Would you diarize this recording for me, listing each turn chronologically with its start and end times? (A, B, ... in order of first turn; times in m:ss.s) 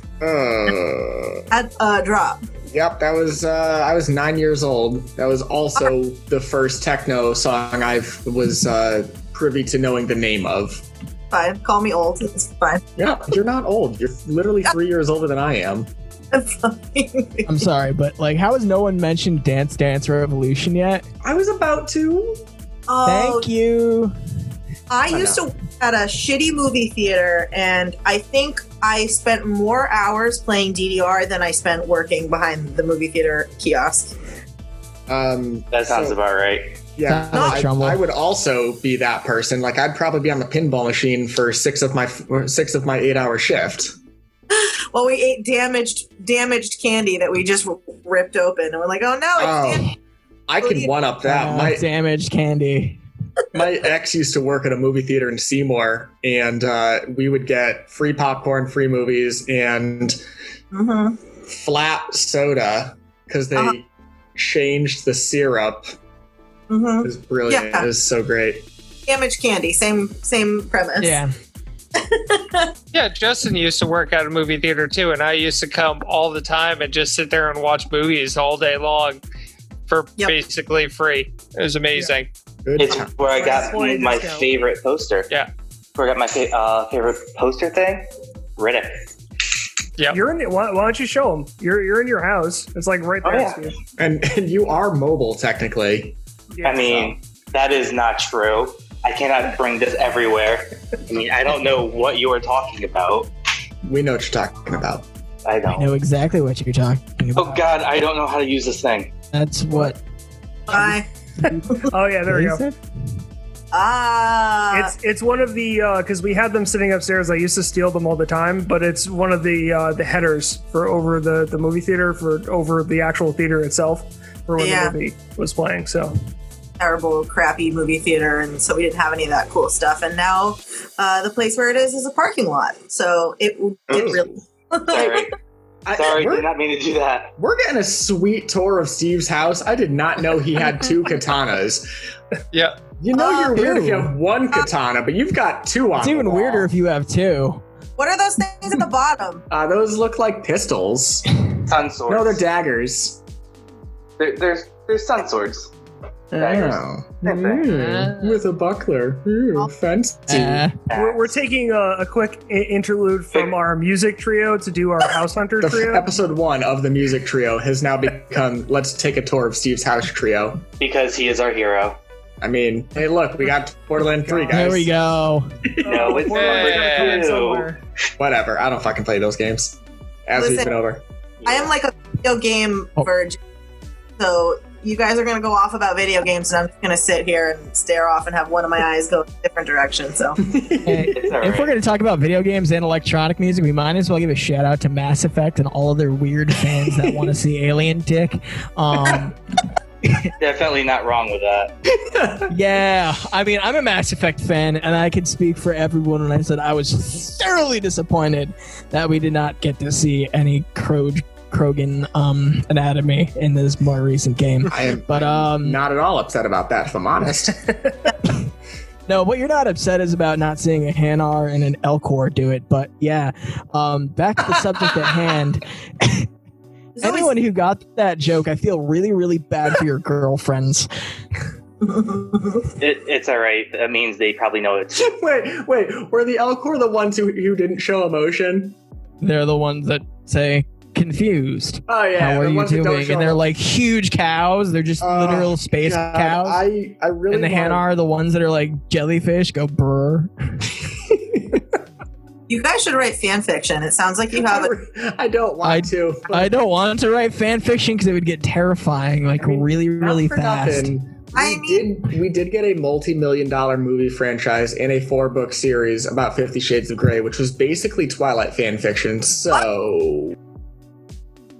0:00.2-0:01.4 A
0:01.5-0:02.4 B
0:02.7-0:10.8 A
0:11.3-0:12.8 B
0:13.0-0:15.9 A
0:16.3-0:17.6 B
0:17.5-0:21.0 C
0:21.2-0:22.4 A
0:22.9-0:23.5 B
0:23.0-0:24.1 C
0:24.9-0:34.2 B
0:25.1-0:25.4 A
0:35.1-0:36.2 A
0:35.7-0:36.7 D
0:37.0-0:43.9 A
0:37.1-0:38.0 C
0:37.3-0:37.6 B
0:44.5-0:49.9 B
0:49.4-0:49.9 A
0:50.5-0:51.8 A
0:50.6-0:50.9 B
0:51.2-0:53.0 C
0:53.5-1:00.2 A
1:00.7-1:01.2 B
1:01.5-1:05.9 A
1:06.7-1:07.9 B
1:07.0-1:08.6 A
1:09.1-1:11.2 B
1:11.0-1:11.3 C
1:11.9-1:12.7 B
1:12.9-1:19.2 E
1:19.9-1:22.3 E
1:22.6-1:23.7 A
1:22.8-1:25.3 D
1:23.3-1:24.5 F
1:25.9-1:28.0 D
1:28.6-1:29.0 D
1:30.1-1:33.7 F
1:33.2-1:33.7 D
1:34.0-1:36.2 A
1:36.5-1:36.9 F
1:36.6-1:43.3 D
1:36.8-1:37.1 A
1:43.8-1:45.0 A
1:45.4-1:45.9 D
1:45.7-1:47.7 C
1:47.4-1:49.1 D
1:49.3-1:50.0 C
1:50.7-1:51.0 B
1:51.4-1:52.6 F
1:52.3-1:52.7 C
1:53.7-1:54.9 B
1:54.7-2:06.1 F
2:04.6-2:04.9 B
2:06.8-2:15.2 B
2:13.9-2:14.3 A
2:14.9-2:15.3 D
2:15.8-2:16.5 A
2:15.9-2:17.3 D
2:17.4-2:21.9 A
2:23.0-2:26.7 A
2:23.1-2:23.7 B
2:23.5-2:24.1 C
2:26.0-2:27.6 C
2:28.0-2:29.4 B
2:29.5-2:31.3 A
2:31.7-2:32.4 D
2:32.1-2:33.2 A
2:34.2-2:35.7 D
2:36.3-2:37.7 D
2:36.3-2:40.7 A
2:37.6-2:38.4 E
2:40.3-2:40.7 C
2:40.9-2:41.3 D
2:40.9-2:46.1 F
2:43.3-2:43.6 D
2:45.6-2:50.6 A
2:50.8-2:52.0 D
2:52.4-2:54.9 A
2:54.3-2:54.6 F
2:54.5-2:55.5 C
2:55.7-2:56.1 A
2:55.8-2:57.8 F
2:55.8-2:57.7 D
2:56.3-2:57.3 E
2:58.2-3:01.0 A
3:00.4-3:00.7 B
3:01.4-3:01.7 D
3:01.4-3:03.4 B
3:04.2-3:10.4 B
3:10.4-3:11.2 A
3:10.8-3:19.3 C
3:11.1-3:11.7 D
3:20.4-3:21.7 D
3:22.1-3:22.4 A
3:22.5-3:35.8 C
3:34.7-3:37.6 A
3:37.7-3:37.9 F
3:39.1-3:46.3 C
3:47.0-3:47.3 B
3:47.0-3:50.9 C
3:51.8-3:52.6 B
3:52.8-3:55.1 D
3:54.9-3:58.8 A
3:59.2-4:06.6 C
4:01.9-4:03.4 A
4:05.0-4:07.8 A
4:07.3-4:10.3 C
4:12.5-4:14.7 B
4:14.3-4:16.5 A
4:15.6-4:20.9 C
4:19.4-4:30.3 A
4:21.3-4:21.9 B